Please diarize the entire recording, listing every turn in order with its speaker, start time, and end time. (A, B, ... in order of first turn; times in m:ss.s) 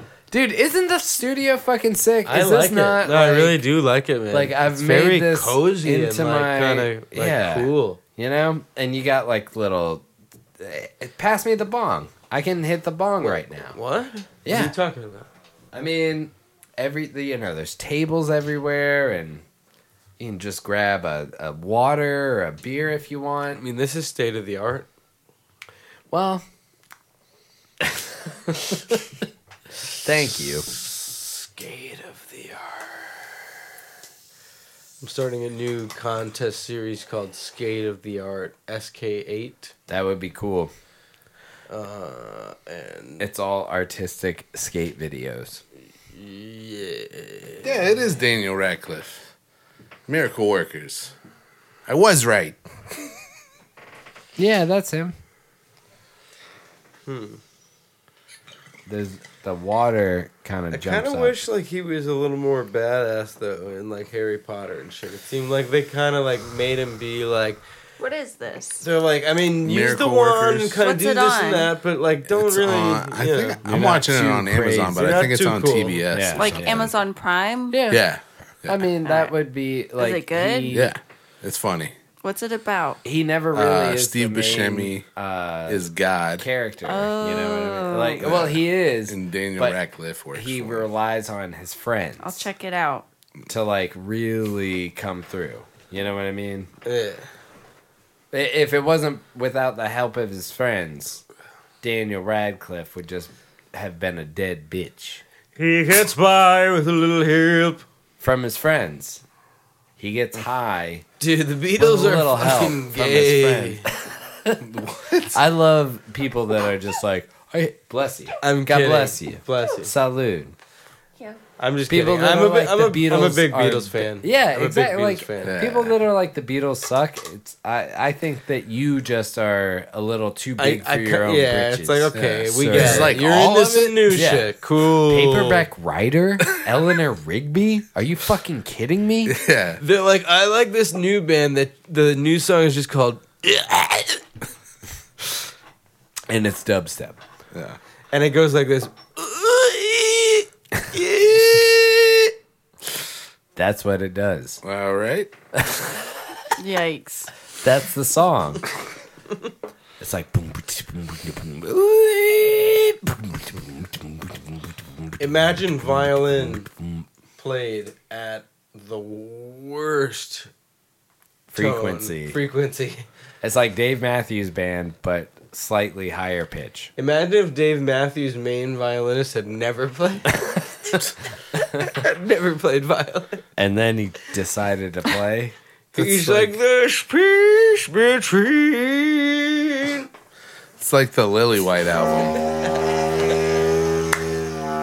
0:00.3-0:03.6 A
0:02.2-0:08.0 B
0:04.3-0:10.0 A
0:10.6-0:13.8 A
0:13.2-0:15.3 B
0:14.4-0:14.8 A
0:15.7-0:19.4 A
0:20.2-0:23.6 A
0:23.5-0:24.9 B
0:26.1-0:26.4 A
0:27.8-0:29.0 A
0:30.0-0:30.7 A
0:30.8-0:33.3 B
0:35.0-0:39.7 B
0:39.9-0:40.7 A
0:41.7-0:43.3 B
0:43.2-0:45.6 A
0:46.1-0:48.2 B
0:47.6-0:49.2 C
0:50.1-0:51.1 C
0:51.9-0:52.6 C
0:54.4-0:55.2 A
0:57.1-0:57.4 B
0:58.9-1:01.5 A
1:00.7-1:07.6 B
1:08.0-1:08.8 D
1:08.8-1:13.6 B
1:09.6-1:10.8 C
1:10.8-1:11.7 D
1:12.3-1:16.9 C
1:13.6-1:15.2 A
1:14.9-1:16.0 B
1:16.1-1:16.9 A
1:16.4-1:17.8 D
1:17.7-1:18.0 A
1:17.9-1:18.8 C
1:18.7-1:20.9 A
1:19.0-1:19.4 D
1:20.0-1:20.8 D
1:20.7-1:21.9 C
1:22.2-1:23.0 D
1:23.0-1:25.8 A
1:23.5-1:25.0 C
1:25.7-1:26.5 C
1:26.4-1:29.8 A
1:26.8-1:28.3 D
1:28.2-1:30.9 C
1:30.3-1:32.5 A
1:32.2-1:33.1 D
1:33.5-1:36.7 A
1:36.8-1:37.3 B
1:38.3-1:41.2 A
1:41.8-1:45.2 A
1:45.6-1:47.8 B
1:48.2-1:49.2 A
1:50.0-1:51.1 A
1:51.2-1:53.9 B
1:51.8-1:54.6 A
1:54.6-1:55.4 C
1:55.3-2:00.6 A
1:58.4-1:59.9 B
2:01.6-2:05.6 B
2:01.9-2:13.2 A
2:05.4-2:06.0 C
2:10.6-2:15.7 B
2:12.7-2:14.2 C
2:14.1-2:19.4 A
2:19.3-2:19.8 C
2:19.8-2:24.2 B
2:26.3-2:27.2 A
2:27.5-2:27.8 C
2:28.1-2:32.3 B
2:33.6-2:34.6 A
2:34.6-2:35.3 C
2:35.5-2:36.1 A
2:36.6-2:37.3 D
2:37.6-2:38.7 A
2:40.0-2:47.1 A
2:45.2-2:46.7 B
2:47.4-2:50.5 B
2:51.5-2:52.4 A
2:51.5-2:53.1 B
2:53.4-2:56.9 A
2:57.0-3:00.6 B
3:00.3-3:01.0 A
3:01.5-3:03.4 B
3:03.6-3:06.5 A
3:06.0-3:10.1 B
3:10.8-3:12.4 C